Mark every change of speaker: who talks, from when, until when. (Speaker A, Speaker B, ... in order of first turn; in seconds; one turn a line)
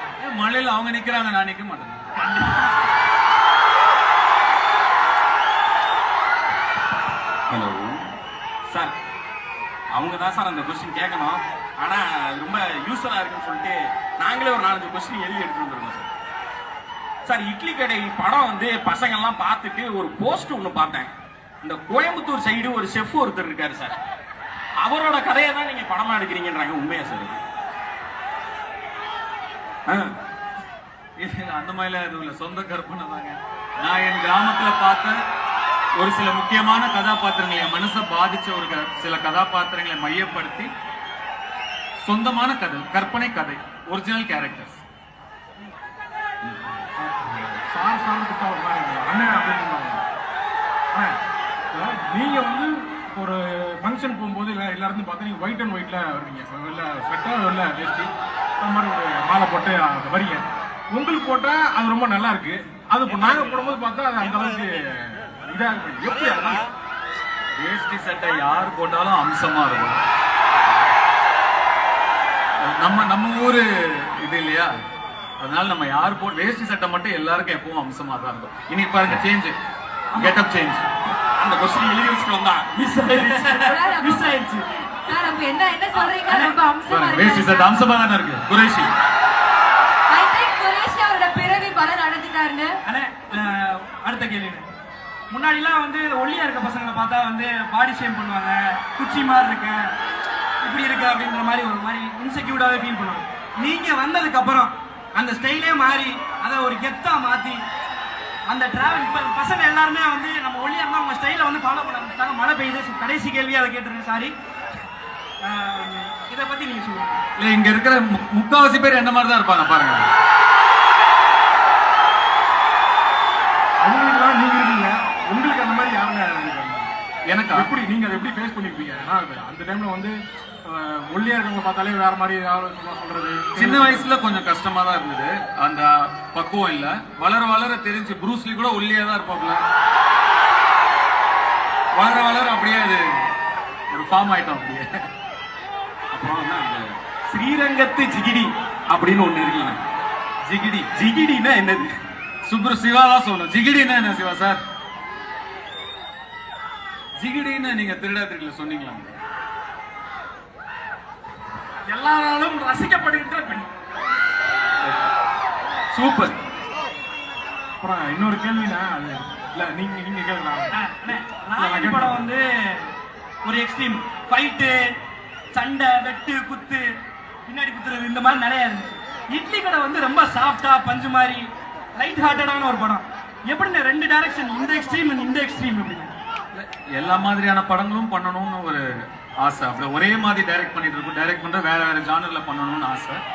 Speaker A: 0.2-2.1
Speaker B: 2.2-2.7
Speaker C: 7.5-8.0
Speaker C: 8.7-8.9
Speaker C: 9.9-16.1
Speaker C: 17.2-24.0
Speaker C: 24.8-27.4
Speaker A: 31.2-35.1
Speaker A: 36.0-40.7
Speaker A: 42.0-44.8
Speaker D: 47.1-50.0
Speaker D: 51.7-66.7
Speaker A: 67.6-70.0
Speaker A: 72.7-74.7
Speaker A: 75.4-79.6
Speaker A: 80.1-80.9
Speaker C: 81.4-83.7
Speaker B: 82.8-85.2
Speaker E: 83.7-84.4
Speaker E: 85.0-87.7
Speaker B: 85.9-86.6
Speaker A: 86.9-88.9
Speaker E: 90.1-92.8
Speaker B: 92.8-94.7
Speaker B: 95.3-99.8
Speaker B: 100.6-107.6
Speaker B: 108.5-114.3
Speaker B: 115.4-117.2
Speaker A: 117.4-120.1
Speaker D: 123.8-126.9
Speaker A: 127.3-127.7
Speaker D: 127.5-134.1
Speaker A: 133.6-139.6
Speaker A: 141.9-143.3
Speaker A: 143.9-144.9
Speaker C: 146.1-149.8
Speaker A: 150.5-150.8
Speaker C: 150.8-151.9
Speaker A: 152.4-154.6
Speaker A: 157.2-159.1
Speaker B: 161.9-163.7
Speaker A: 165.9-166.3
Speaker D: 167.8-172.3
Speaker B: 170.7-172.9
Speaker B: 173.4-174.8
Speaker B: 175.5-176.8
Speaker B: 177.5-186.2
Speaker A: 186.5-188.8
Speaker A: 189.4-193.2